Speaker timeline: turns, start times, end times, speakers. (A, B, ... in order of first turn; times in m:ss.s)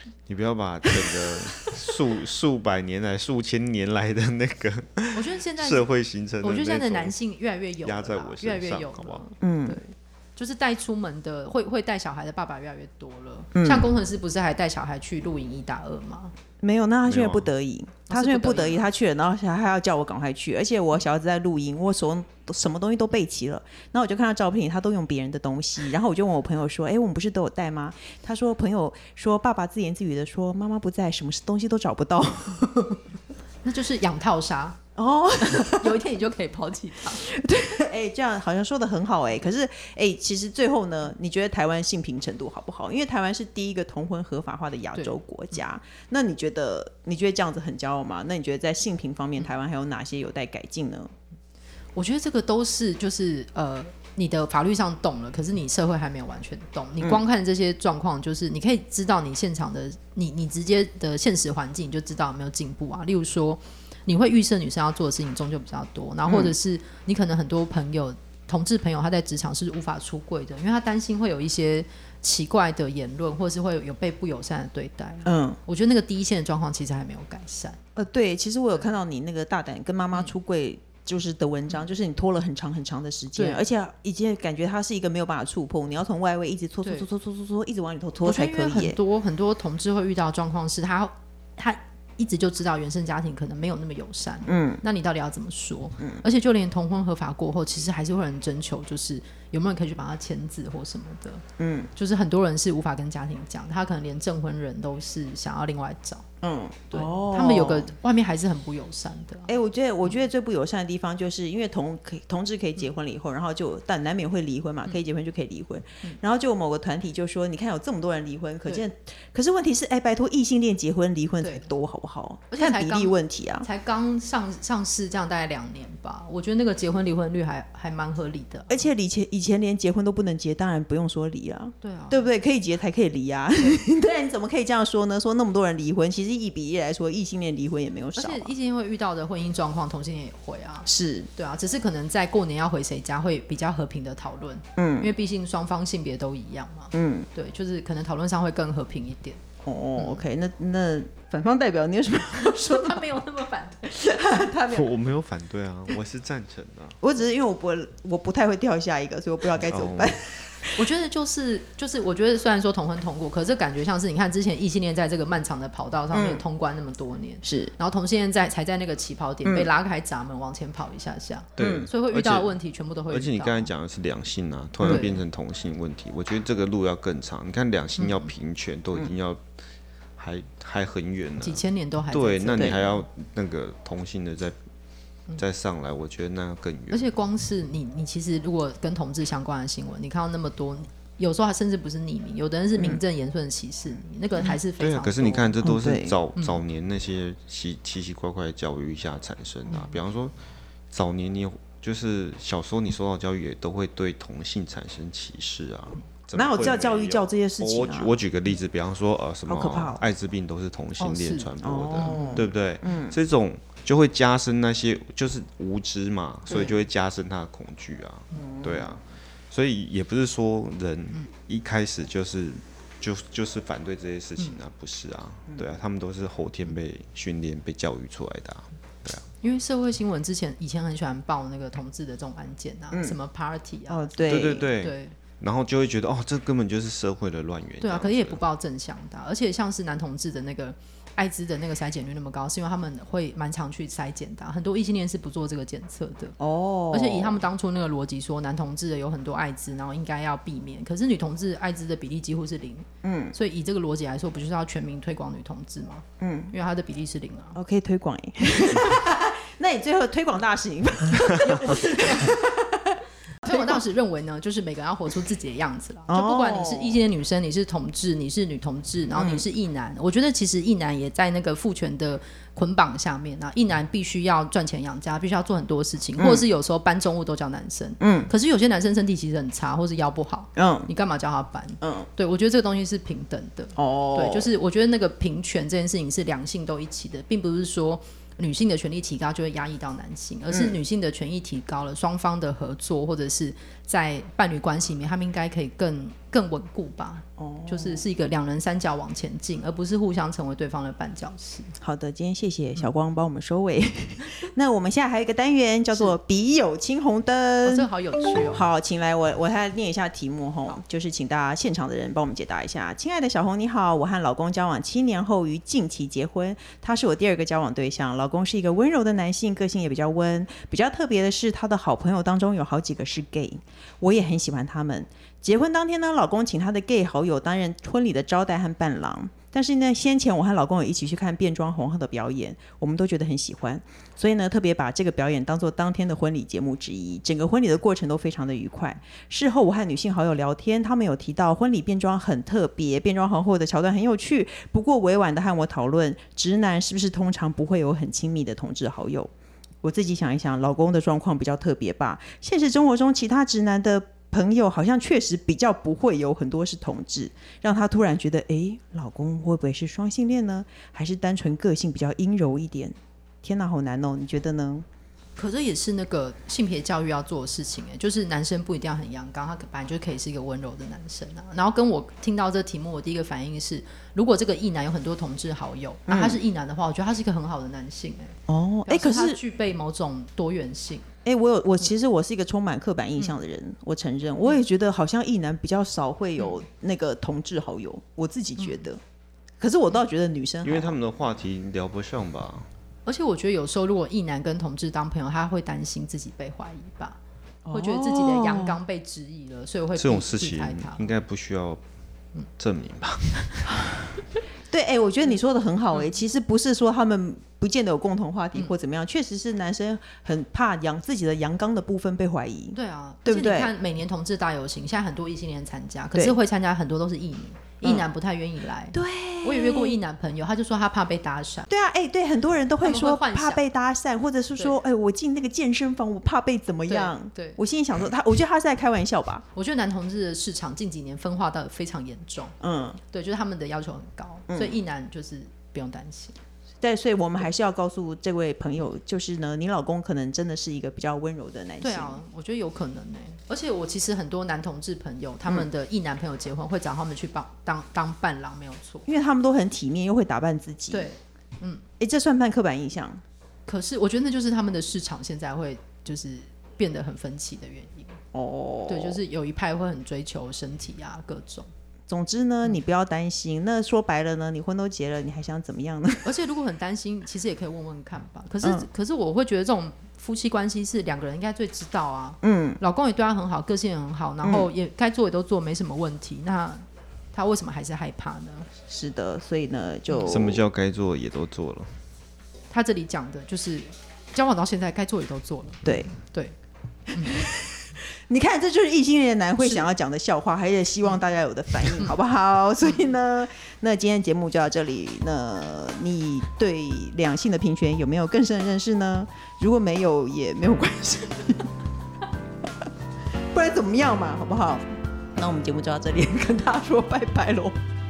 0:00.3-0:07.1 A
0:05.1-0:05.9 B
0:06.4-0:16.3 B
0:07.8-0:09.2 A
0:09.4-0:09.8 C
0:13.5-0:13.9 C
0:16.6-0:33.0 C
0:17.1-0:17.5 A
0:18.1-0:18.8 B
0:33.6-0:34.8 B
0:35.0-0:36.0 C
0:35.4-0:37.2 B
0:37.1-0:51.1 C
0:51.9-1:17.8 B
1:06.3-1:06.5 C
1:15.2-1:15.6 C
1:18.0-1:29.0 C
1:23.4-1:23.6 B
1:28.2-1:41.4 B
1:34.4-1:34.8 C
1:41.6-1:41.9 C
1:42.0-1:46.2 B
1:46.4-1:47.9 C
1:46.9-1:49.5 B
1:49.5-2:03.7 C
2:01.4-2:01.7 B
2:02.5-2:08.9 B
2:08.7-2:18.5 C
2:11.8-2:12.3 B
2:18.2-2:29.4 B
2:20.8-2:21.3 C
2:24.8-2:25.1 C
2:26.9-2:27.3 C
2:29.6-2:33.2 C
2:32.3-2:34.0 B
2:33.8-2:34.9 C
2:34.7-2:37.0 A
2:37.0-2:40.8 C
2:39.6-2:40.2 A
2:40.8-2:53.7 B
2:46.1-2:46.4 C
2:47.4-2:47.7 C
2:49.4-2:49.7 C
2:51.6-2:52.6 A
2:51.6-2:51.9 C
2:53.1-2:59.4 A
2:54.8-2:55.2 B
2:58.0-2:58.3 B
3:00.2-3:04.6 A
3:01.4-3:03.0 B
3:05.4-3:07.1 A
3:06.9-3:15.6 B
3:14.8-3:20.3 A
3:15.6-3:16.2 C
3:16.4-3:16.6 B
3:20.9-3:49.2 A
3:26.3-3:28.1 C
3:29.5-3:30.0 C
3:31.0-3:31.5 B
3:31.6-3:33.2 C
3:32.0-3:32.4 B
3:36.5-3:36.8 C
3:38.3-3:39.0 C
3:49.4-3:55.2 B
3:52.9-3:53.2 C
3:53.9-3:54.7 C
3:54.2-3:58.4 A
3:57.8-4:06.4 B
4:06.4-4:07.4 C
4:06.9-4:17.6 B
4:13.0-4:13.3 C
4:16.2-4:16.5 C
4:17.5-4:23.8 C
4:21.3-4:22.3 B
4:23.4-5:01.7 B
4:26.1-4:27.0 C
4:29.2-4:29.4 C
4:36.2-4:36.4 C
4:38.0-4:38.3 C
4:40.6-4:40.9 C
4:41.8-4:42.1 C
4:43.8-4:44.5 C
4:50.5-4:50.8 C
4:57.4-4:58.0 C
5:01.8-5:07.9 C
5:07.6-5:08.6 B
5:08.5-5:49.3 C
5:49.8-6:04.8 C
6:05.4-6:21.1 B
6:16.1-6:16.4 C
6:18.5-6:19.4 C
6:21.2-6:29.0 C
6:28.6-6:28.8 B
6:29.6-6:31.0 C
6:30.6-6:32.7 A
6:33.0-6:37.2 B
6:37.6-6:38.8 C
6:37.7-6:41.1 B
6:39.9-6:41.8 A
6:42.6-6:43.7 A
6:44.7-6:53.7 C
6:52.7-7:01.7 B
6:58.9-7:00.0 C
7:01.7-7:09.4 C
7:02.8-7:03.6 B
7:06.9-7:07.6 B
7:09.5-7:12.6 B
7:12.6-7:13.0 C
7:13.1-7:16.4 B
7:14.5-7:14.8 C
7:16.8-7:22.2 C
7:21.8-7:29.1 B
7:29.0-7:31.1 C
7:30.9-7:31.8 B
7:32.0-7:33.2 C
7:33.7-7:38.2 B
7:38.3-7:39.2 C
7:38.9-7:41.7 B
7:42.1-7:46.3 C
7:46.2-7:58.7 B
7:52.4-7:52.8 C
7:54.4-7:54.7 C
7:58.9-8:00.6 C
8:00.1-8:00.4 B
8:00.3-8:01.9 A
8:02.7-8:06.5 B
8:05.8-8:06.1 C
8:07.1-8:07.4 B
8:07.2-8:21.7 C
8:09.6-8:09.9 B
8:23.5-8:27.8 C